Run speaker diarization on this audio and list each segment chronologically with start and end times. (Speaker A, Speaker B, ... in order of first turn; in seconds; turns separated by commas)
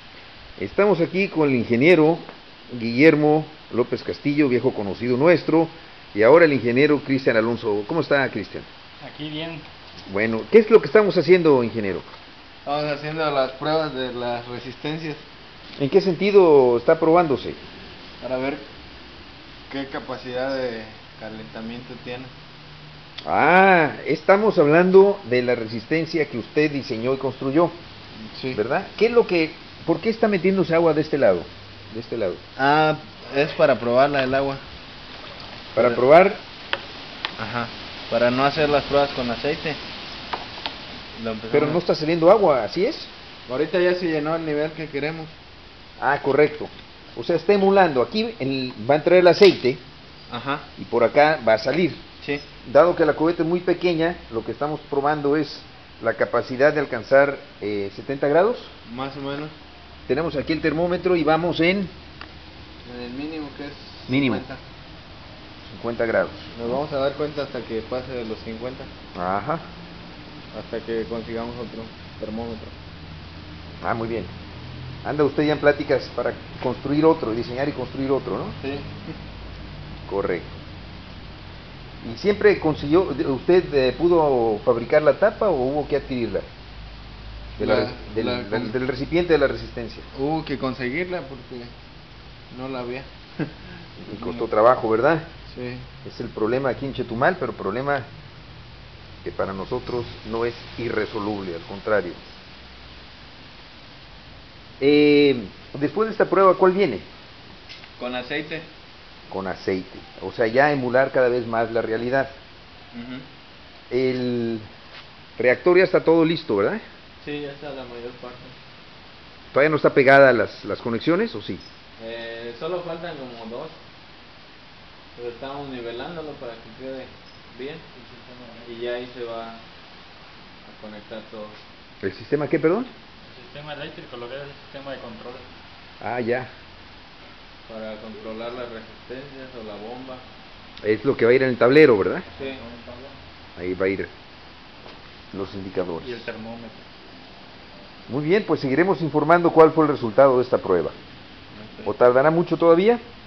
Speaker A: 0.6-8.7, Speaker B: 9.0-9.7, Speaker A: 10.1-12.0, Speaker C: 12.6-15.2, Speaker A: 15.8-17.6, Speaker C: 18.2-18.7, Speaker C: 19.7-22.3, Speaker A: 23.2-27.8, Speaker C: 28.3-28.6, Speaker A: 28.5-32.4, Speaker C: 32.5-34.6, Speaker A: 35.7-36.4, Speaker C: 35.8-36.0, Speaker C: 37.4-39.8, Speaker C: 41.1-41.8, Speaker A: 41.5-43.1, Speaker C: 43.5-45.4, Speaker A: 46.0-49.8, Speaker C: 50.3-50.7, Speaker A: 50.8-52.0, Speaker C: 52.2-52.5, Speaker A: 52.6-58.7, Speaker C: 58.8-59.5, Speaker A: 60.1-61.9, Speaker C: 62.8-64.6, Speaker A: 64.1-64.4, Speaker A: 65.6-66.6, Speaker C: 66.5-68.9, Speaker A: 69.1-69.7, Speaker C: 70.5-72.7, Speaker A: 73.8-74.3, Speaker A: 75.0-78.6, Speaker C: 78.6-79.2, Speaker A: 80.1-80.6, Speaker A: 82.0-86.5, Speaker A: 87.6-90.1, Speaker C: 87.6-88.8, Speaker C: 90.1-91.7, Speaker C: 92.5-94.5, Speaker A: 94.0-95.3, Speaker C: 95.5-95.9, Speaker A: 96.0-98.1, Speaker A: 99.2-102.2, Speaker A: 104.8-107.1, Speaker C: 108.0-108.7, Speaker A: 109.3-112.3, Speaker C: 112.9-113.2, Speaker A: 113.9-114.7, Speaker A: 115.4-116.8, Speaker C: 117.2-118.5, Speaker A: 119.5-121.6, Speaker C: 122.0-123.8, Speaker C: 125.1-127.8, Speaker B: 127.9-128.7, Speaker C: 128.6-129.6, Speaker C: 130.6-131.6, Speaker A: 132.0-132.9, Speaker B: 133.2-135.5, Speaker A: 136.0-136.5, Speaker C: 137.6-140.2, Speaker A: 140.8-142.3, Speaker B: 142.3-143.2, Speaker C: 142.3-142.6, Speaker A: 143.6-144.1, Speaker A: 145.3-146.3, Speaker B: 146.0-146.8, Speaker A: 148.1-150.9, Speaker C: 151.5-151.9, Speaker A: 151.8-153.0